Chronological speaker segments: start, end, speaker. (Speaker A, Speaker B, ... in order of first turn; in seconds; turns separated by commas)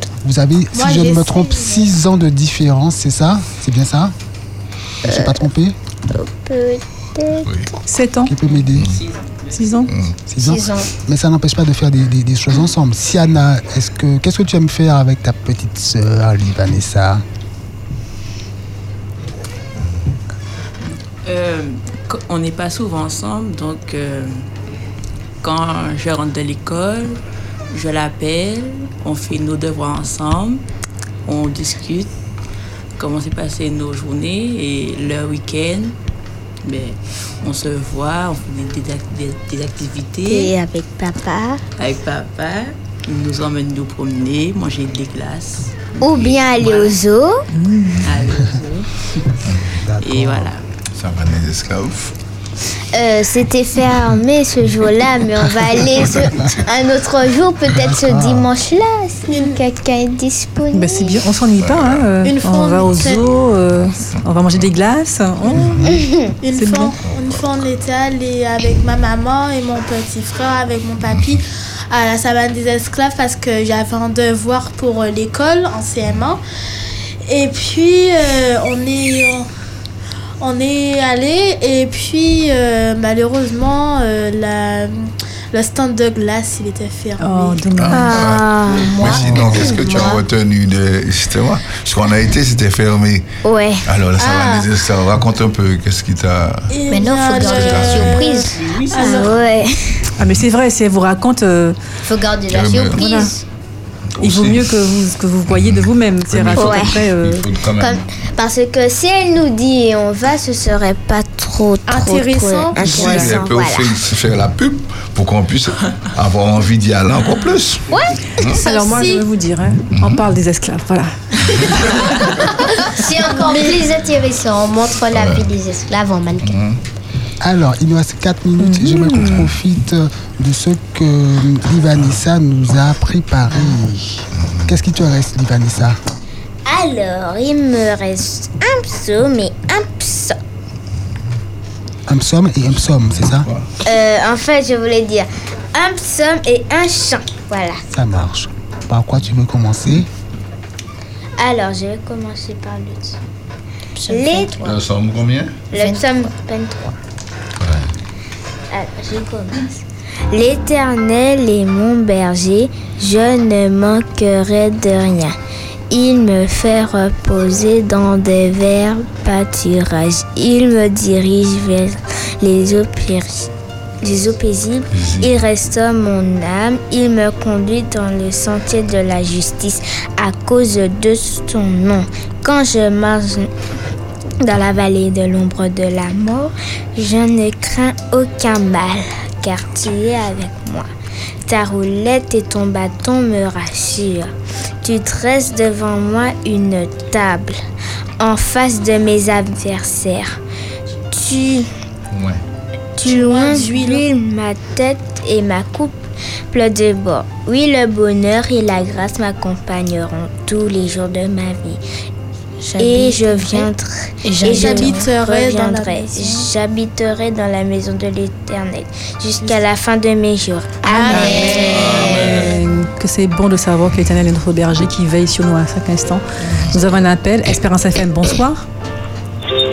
Speaker A: 0.2-4.1, Speaker B: 0.7-1.8, Speaker A: 5.0-5.8, Speaker C: 5.0-5.4, Speaker C: 6.1-7.5, Speaker D: 7.9-8.3, Speaker A: 8.3-9.0, Speaker E: 8.4-9.6, Speaker D: 9.5-9.9, Speaker F: 9.9-10.2, Speaker A: 10.3-17.2, Speaker G: 10.4-10.9, Speaker E: 21.2-24.5, Speaker E: 25.4-27.2, Speaker E: 27.7-30.6, Speaker E: 31.3-32.1, Speaker E: 33.0-36.0, Speaker E: 36.6-40.5, Speaker C: 40.3-41.6, Speaker E: 41.8-47.0, Speaker C: 46.0-47.5, Speaker D: 47.5-48.0, Speaker E: 48.0-48.9, Speaker F: 49.5-49.7, Speaker A: 49.8-50.5, Speaker E: 50.0-50.6, Speaker F: 51.0-52.1, Speaker C: 52.9-61.2, Speaker A: 57.8-58.5, Speaker B: 59.3-59.6, Speaker D: 60.7-66.0, Speaker F: 61.6-62.1, Speaker B: 62.2-63.3, Speaker F: 62.9-63.2, Speaker F: 65.5-65.9, Speaker C: 65.8-66.3, Speaker B: 66.4-76.4, Speaker D: 66.5-66.9, Speaker F: 67.0-67.4, Speaker F: 71.1-71.4, Speaker B: 77.3-79.5, Speaker B: 80.4-87.7, Speaker D: 87.2-88.1, Speaker F: 87.8-93.2, Speaker C: 87.9-90.2, Speaker G: 88.7-90.2, Speaker A: 89.0-89.6, Speaker C: 93.4-93.9, Speaker F: 93.9-96.8, Speaker B: 96.7-99.4, Speaker G: 96.9-98.6, Speaker F: 97.3-98.2, Speaker E: 98.6-99.2, Speaker C: 99.0-99.8, Speaker D: 100.2-101.8, Speaker G: 102.0-103.4, Speaker F: 102.5-103.0, Speaker D: 103.0-103.3, Speaker F: 104.2-104.7, Speaker D: 104.2-107.5, Speaker F: 105.5-108.0, Speaker C: 106.5-107.0, Speaker C: 107.8-114.0, Speaker B: 111.9-113.3, Speaker F: 112.8-118.6, Speaker D: 112.8-113.3, Speaker B: 117.9-119.3, Speaker D: 118.6-122.0, Speaker F: 120.0-120.2, Speaker G: 122.8-126.6, Speaker F: 125.1-125.5, Speaker F: 126.4-126.8, Speaker A: 127.4-136.0, Speaker D: 128.6-129.3, Speaker F: 129.2-129.5, Speaker F: 134.4-134.7, Speaker C: 136.7-140.4, Speaker A: 142.1-143.5, Speaker F: 142.7-143.7, Speaker C: 143.8-147.8, Speaker A: 147.9-150.1, Speaker C: 151.4-153.2, Speaker C: 154.0-154.8, Speaker G: 154.1-154.6, Speaker F: 154.6-155.6, Speaker C: 155.7-157.0, Speaker G: 155.7-156.0, Speaker F: 157.6-157.9, Speaker C: 158.7-165.4, Speaker C: 165.9-173.5, Speaker C: 174.0-183.5, Speaker F: 174.9-175.3, Speaker C: 184.4-190.9, Speaker C: 191.4-194.3, Speaker C: 194.8-197.6, Speaker C: 198.2-200.4, Speaker C: 201.1-201.7, Speaker F: 202.1-202.4, Speaker C: 203.0-211.8, Speaker B: 203.0-204.1, Speaker G: 212.7-213.7, Speaker C: 212.8-221.7, Speaker G: 214.2-215.1, Speaker B: 214.4-216.5, Speaker G: 220.8-222.4, Speaker B: 220.9-222.3, Speaker D: 221.1-228.7